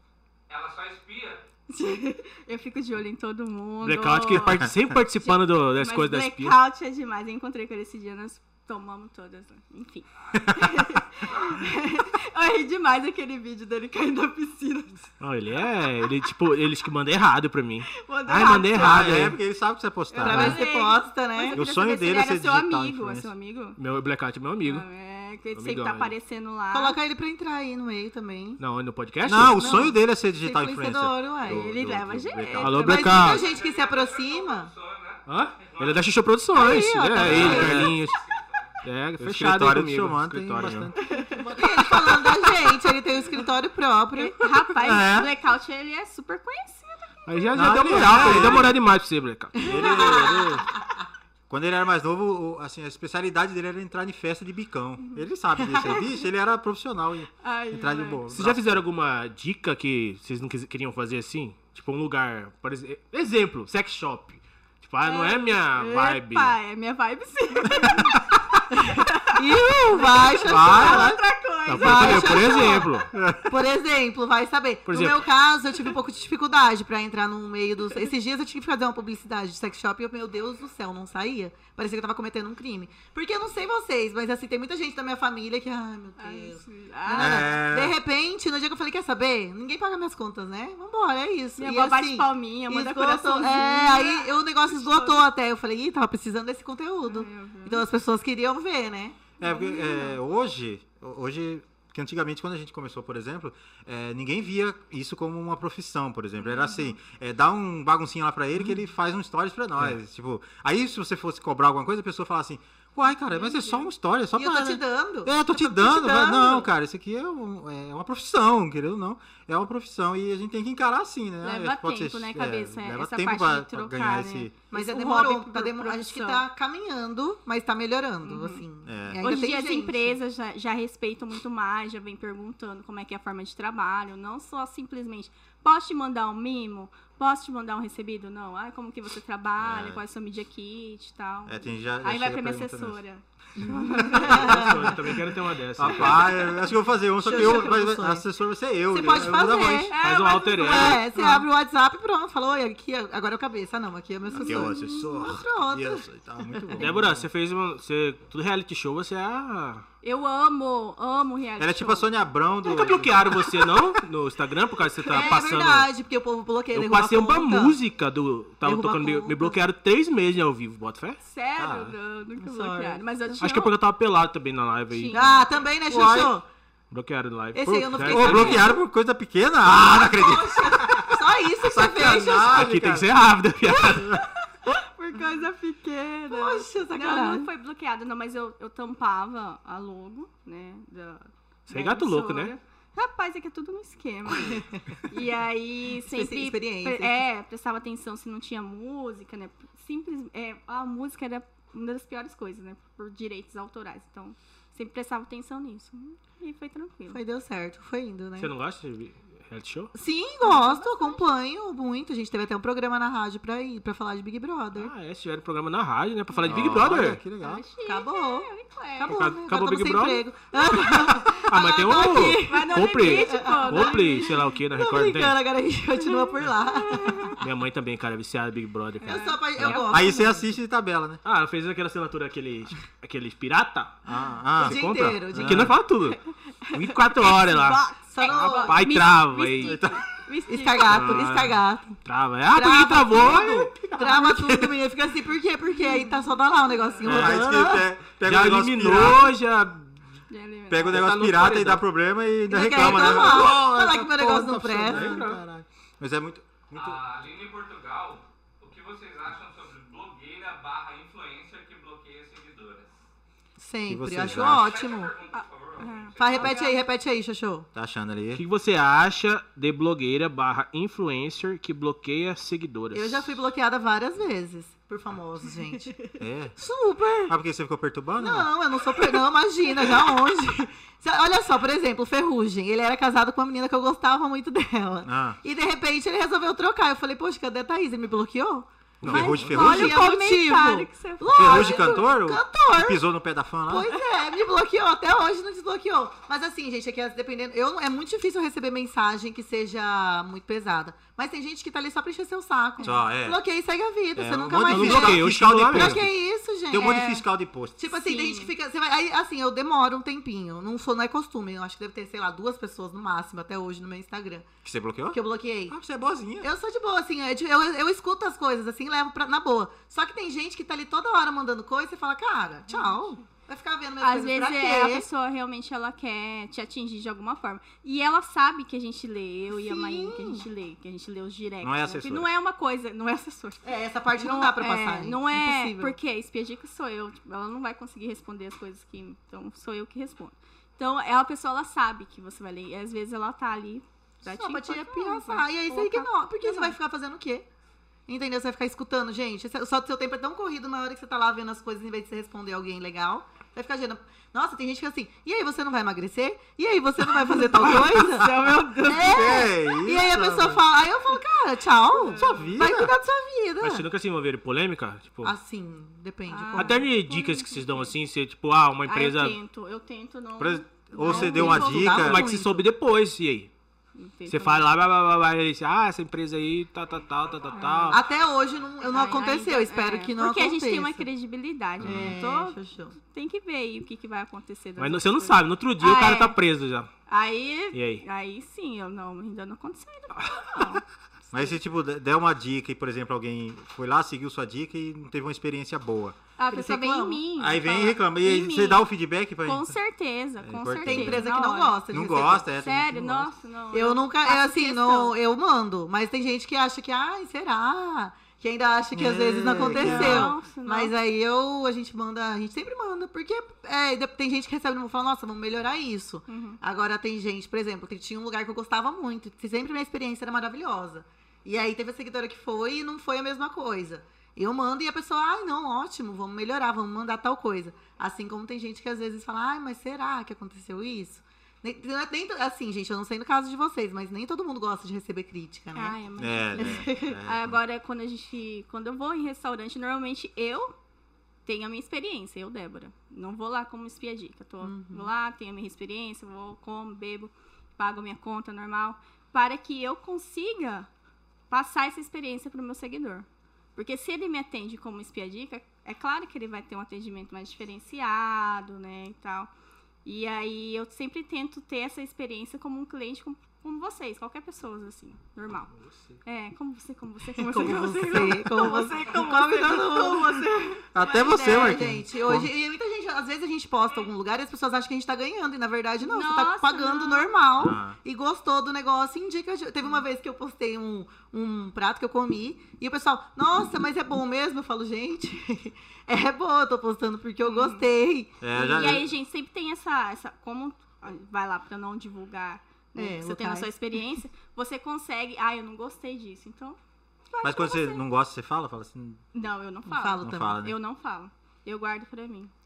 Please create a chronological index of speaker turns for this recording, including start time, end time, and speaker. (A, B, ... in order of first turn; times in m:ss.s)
0:00.5-0:01.5 A
0:01.7-0:15.1 B
0:03.8-0:06.6 C
0:10.4-0:11.0 D
0:11.3-0:11.6 A
0:15.2-0:19.4 C
0:17.9-0:19.3 B
0:18.7-0:20.6 D
0:20.1-0:23.8 B
0:20.2-0:21.6 E
0:21.5-0:23.3 D
0:23.8-0:24.8 C
0:24.6-0:27.0 B
0:25.5-0:26.1 C
0:26.7-0:28.6 E
0:28.6-0:29.7 C
0:29.2-0:32.9 D
0:29.5-0:31.7 E
0:31.4-0:33.3 B
0:32.6-0:33.4 C
0:32.8-0:34.7 E
0:33.2-0:36.1 A
0:35.3-0:38.2 C
0:36.5-0:37.9 E
0:37.2-0:38.0 D
0:37.3-0:38.7 A
0:37.4-0:37.7 B
0:38.8-0:40.9 C
0:39.2-0:42.2 D
0:41.0-0:41.6 B
0:41.5-0:44.7 E
0:42.0-0:42.4 C
0:44.2-0:48.7 B
0:44.8-0:45.3 D
0:47.3-0:49.7 C
0:47.5-0:48.8 D
0:49.6-0:50.7 D
0:49.6-0:50.6 E
0:49.7-0:50.4 B
0:51.5-0:58.8 D
0:57.4-0:58.3 B
0:58.3-1:06.5 C
1:05.0-1:13.0 B
1:08.8-1:11.2 E
1:10.4-1:11.2 D
1:11.7-1:13.1 C
1:11.8-1:12.9 E
1:13.1-1:13.5 D
1:13.5-1:39.4 E
1:14.9-1:15.3 C
1:26.2-1:27.6 B
1:27.1-1:28.0 D
1:31.6-1:35.2 B
1:37.0-1:37.8 B
1:39.4-2:04.6 D
1:39.4-1:40.2 B
1:46.4-1:47.0 B
1:53.1-1:53.9 B
1:54.4-1:56.7 E
2:01.4-2:06.4 B
2:04.7-2:10.2 E
2:08.2-2:08.6 B
2:08.8-2:09.4 D
2:09.2-2:24.6 B
2:19.6-2:20.0 D
2:21.5-2:23.0 D
2:23.6-2:25.0 E
2:23.8-2:25.0 D
2:24.1-2:26.5 C
2:25.8-2:29.9 D
2:27.2-2:28.3 E
2:28.9-2:30.0 E
2:29.9-2:31.3 B
2:30.0-2:31.4 C
2:30.6-2:36.8 E
2:34.3-2:35.1 B
2:34.3-2:37.3 D
2:36.8-2:39.8 C
2:40.0-2:42.1 B
2:41.6-2:43.8 D
2:42.6-2:45.9 C
2:45.1-2:47.8 E
2:46.7-2:51.2 C
2:48.6-2:49.6 E
2:51.2-2:53.7 B
2:51.6-2:52.0 D
2:52.4-2:53.4 E
2:53.4-2:55.4 C
2:54.9-2:55.5 B
2:55.1-2:56.4 E
2:55.9-2:56.4 D
2:56.9-2:58.7 C
2:57.6-2:58.8 E
2:58.0-3:03.2 D
2:59.7-3:02.7 E
3:02.5-3:04.2 C
3:03.8-3:04.2 D
3:04.7-3:27.2 B
3:06.3-3:07.5 E
3:11.7-3:12.5 C
3:14.4-3:14.8 E
3:16.1-3:17.2 E
3:27.1-3:28.5 E
3:28.4-3:29.9 C
3:29.9-3:34.9 E
3:30.4-3:31.3 B
3:34.7-3:37.2 C
3:36.4-3:37.6 D
3:37.4-3:39.2 B
3:37.8-3:47.4 E
3:39.1-3:45.4 C
3:42.4-3:44.4 B
3:46.0-3:47.4 B
3:47.4-3:49.8 C
3:49.0-3:50.2 B
3:49.0-3:50.4 E
3:49.6-3:51.2 D
3:51.2-3:54.0 C
3:54.1-3:55.8 D
3:54.6-3:55.8 E
3:54.6-3:59.8 C
3:56.6-4:01.3 B
3:58.1-3:58.8 E
3:59.6-4:00.0 D
4:00.5-4:02.0 E
4:00.9-4:04.8 C
4:02.5-4:07.8 E
4:05.8-4:07.0 B
4:07.0-4:09.3 D
4:07.0-4:10.0 C
4:10.3-4:11.1 B
4:10.7-4:17.0 D
4:10.9-4:11.8 C
4:12.5-4:15.2 E
4:12.7-4:13.6 C
4:14.8-4:15.4 C
4:16.7-4:23.1 A
4:23.6-4:25.1 E
4:23.9-4:24.8 D
4:24.3-4:26.6 A
4:25.3-4:26.8 B
4:26.2-4:27.7 E
4:27.8-4:28.4 D
4:28.3-4:33.4 C
4:32.9-4:36.0 E
4:36.2-4:36.6 D
4:36.6-4:37.3 E
4:37.3-4:38.5 D
4:38.2-4:48.7 E
4:45.0-4:45.4 D
4:49.0-4:49.5 C
4:49.0-4:50.0 D
4:49.1-4:52.1 B
4:49.4-4:53.0 E
4:51.3-4:54.0 D
4:53.7-5:07.1 E
5:02.8-5:03.4 D
5:04.2-5:06.1 D
5:04.7-5:06.0 C
5:06.7-5:07.8 D
5:06.7-5:07.2 B
5:07.8-5:14.5 E
5:07.9-5:08.5 B
5:14.6-5:16.5 D
5:15.1-5:15.8 E
5:16.4-5:25.1 E
5:22.7-5:23.1 B
5:24.0-5:46.8 B
5:29.6-5:30.4 E
5:31.6-5:32.3 D
5:33.6-5:36.0 E
5:44.2-5:47.5 E
5:48.1-6:03.8 E
5:57.6-5:59.5 B
5:59.0-6:00.6 D
6:01.9-6:02.6 B
6:02.1-6:02.9 D
6:03.6-6:05.4 C
6:05.2-6:06.8 E
6:06.3-6:07.9 B
6:06.6-6:09.4 C
6:08.9-6:11.9 B
6:10.4-6:12.3 D
6:11.0-6:12.6 E
6:11.8-6:13.5 C
6:14.0-6:14.7 B
6:14.3-6:18.0 C
6:17.5-6:18.0 B
6:17.9-6:21.1 E
6:18.8-6:26.4 B
6:21.8-6:22.1 D
6:21.8-6:23.0 E
6:24.8-6:26.9 C
6:27.1-6:31.6 B
6:27.7-6:28.0 C
6:31.3-6:36.2 D
6:36.4-6:38.9 B
6:36.5-6:37.2 E
6:37.4-6:39.8 D
6:39.4-6:41.8 B
6:40.4-6:41.3 D
6:40.8-6:42.5 E
6:41.9-6:43.3 D
6:42.5-6:45.1 B
6:43.7-7:16.0 E
6:48.9-6:50.4 D
6:49.7-6:50.9 B
6:56.3-6:56.6 B
7:15.8-7:20.7 B
7:16.2-7:17.6 D
7:16.6-7:17.2 E
7:21.5-7:30.9 B
7:24.6-7:25.1 E
7:31.5-7:39.5 B
7:40.0-7:45.7 B
7:45.9-7:46.1 C
7:46.2-7:50.8 B
7:47.4-8:09.0 E
7:50.9-7:52.5 D
7:56.0-7:57.3 B
7:57.6-7:58.0 D
8:07.4-8:07.8 B
8:08.4-8:09.1 D
8:08.6-8:16.8 B
8:13.0-8:14.0 E
8:17.3-8:18.0 B
8:17.4-8:19.2 D
8:19.3-8:22.5 B
8:19.9-8:20.6 E
8:20.2-8:20.8 D